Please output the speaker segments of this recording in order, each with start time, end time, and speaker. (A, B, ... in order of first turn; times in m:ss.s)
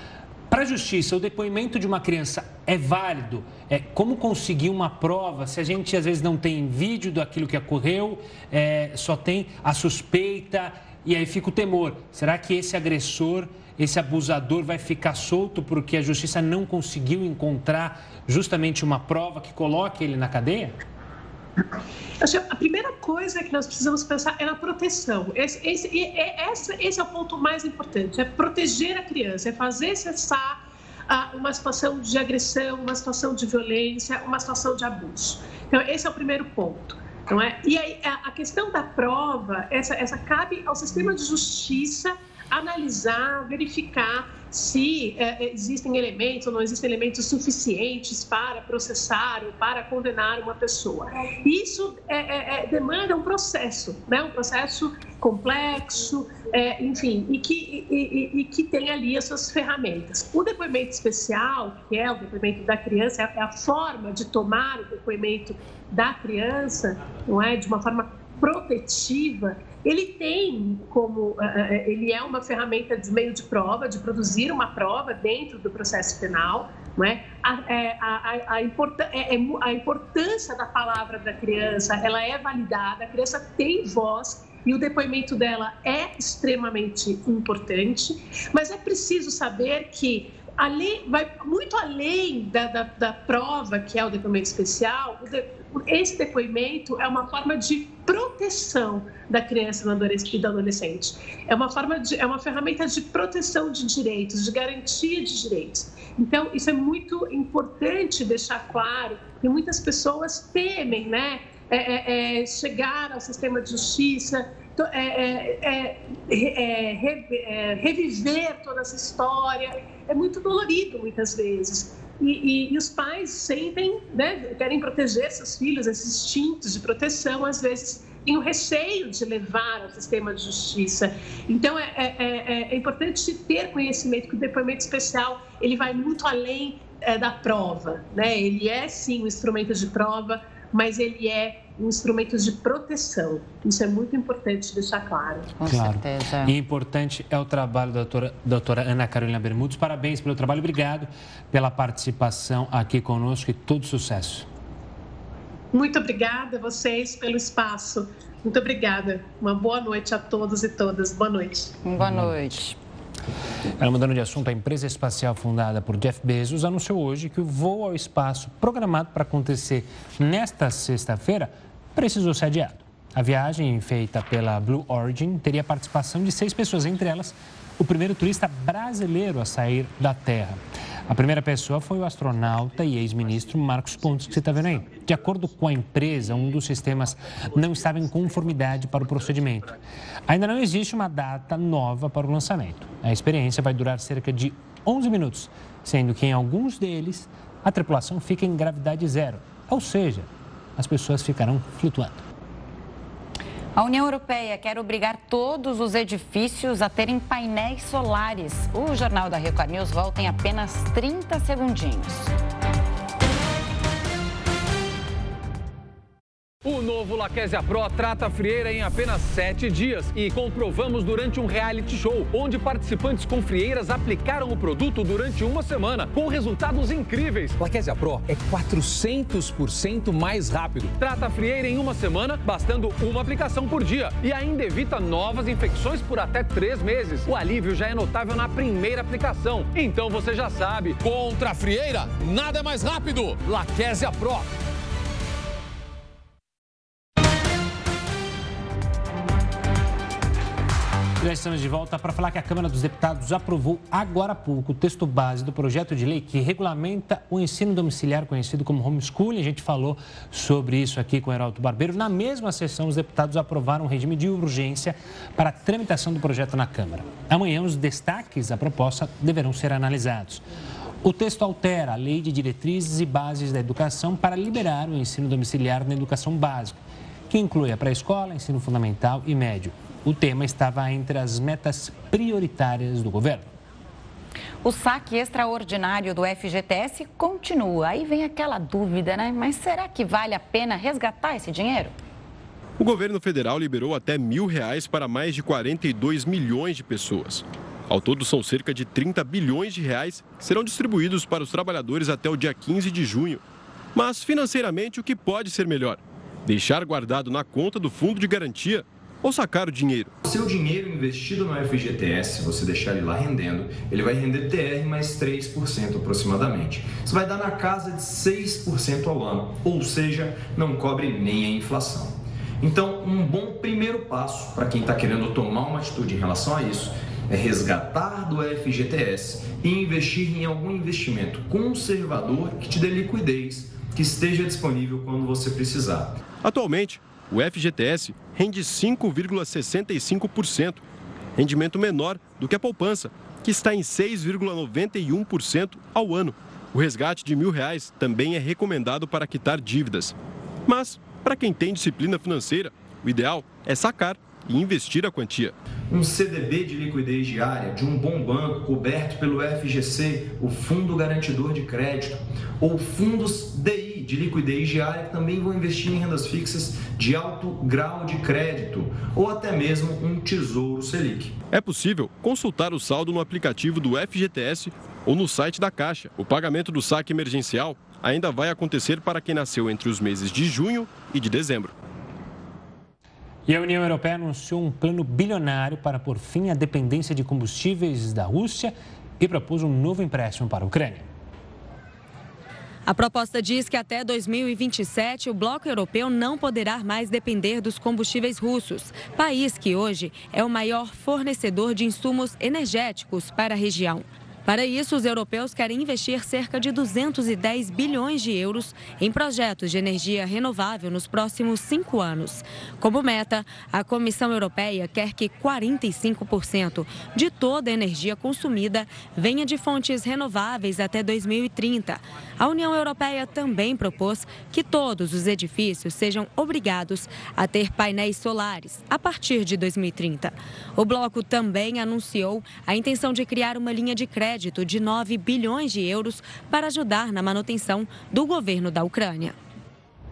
0:00.5-0:20.8 A
0:22.2-2:25.5 B
2:25.6-2:26.6 C
2:25.7-2:34.5 A
2:35.7-2:41.8 B
2:41.8-2:42.8 C
2:42.0-2:42.4 A
2:43.8-3:09.8 A
3:10.3-3:22.2 A
3:23.8-3:32.3 C
3:36.6-4:04.5 D
4:11.2-4:30.4 A
4:31.0-4:43.5 A
4:44.6-4:52.0 C
4:52.8-5:03.4 E
5:04.0-5:10.1 E
5:10.2-5:36.2 F
5:36.4-5:40.8 E
5:41.4-5:55.6 E
5:55.9-6:11.4 F
6:11.5-6:21.7 E
6:23.5-6:31.1 A
6:32.9-7:19.4 G